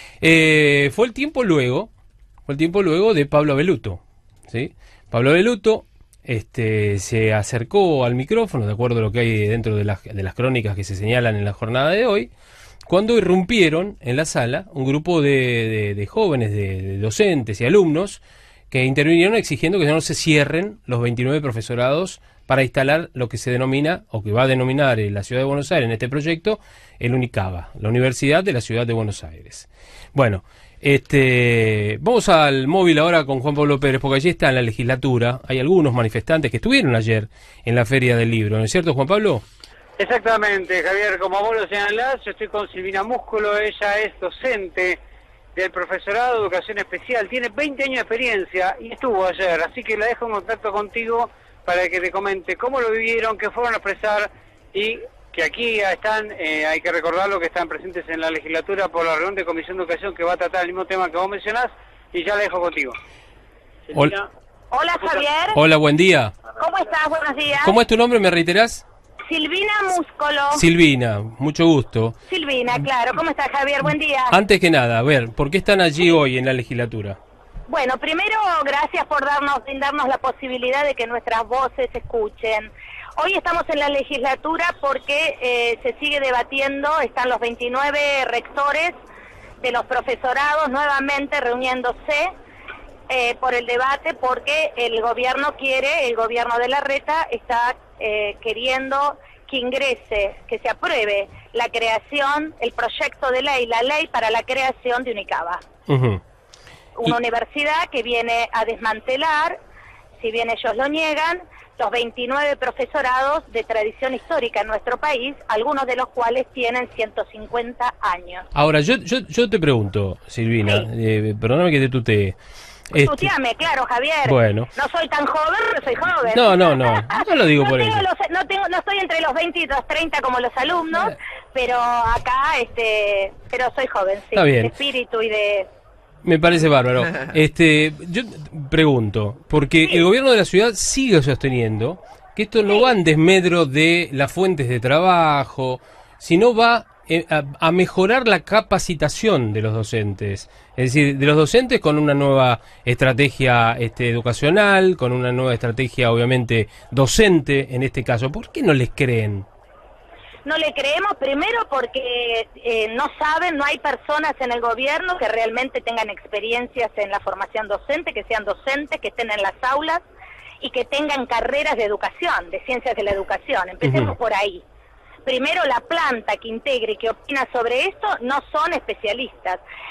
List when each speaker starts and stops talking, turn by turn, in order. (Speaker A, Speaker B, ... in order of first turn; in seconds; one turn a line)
Speaker A: 0.2-1.9
Speaker A: 2.5-12.3
Speaker A: 12.9-39.4
Speaker B: 40.0-45.0
Speaker B: 45.5-63.0
Speaker B: 63.9-64.3
Speaker C: 64.7-65.6
Speaker A: 65.5-66.3
Speaker C: 66.6-67.8
Speaker A: 67.6-68.8
Speaker C: 69.3-70.7
Speaker A: 70.5-72.2
Speaker C: 72.3-74.3
Speaker A: 74.3-77.2
Speaker C: 77.7-89.0
Speaker C: 89.6-92.3
Speaker C: 93.1-105.6
Speaker A: 105.9-106.2
Speaker C: 107.0-109.6
Speaker C: 110.2-118.5
Speaker A: 118.5-122.4
Speaker A: 122.9-123.3
Speaker C: 123.0-135.7
Speaker A: 124.3-124.7
Speaker A: 126.3-128.1
Speaker A: 134.3-134.7
Speaker A: 136.2-159.5
Speaker C: 160.4-170.0
Speaker C: 170.6-174.6
Speaker A: 173.8-174.1
Speaker C: 175.2-179.6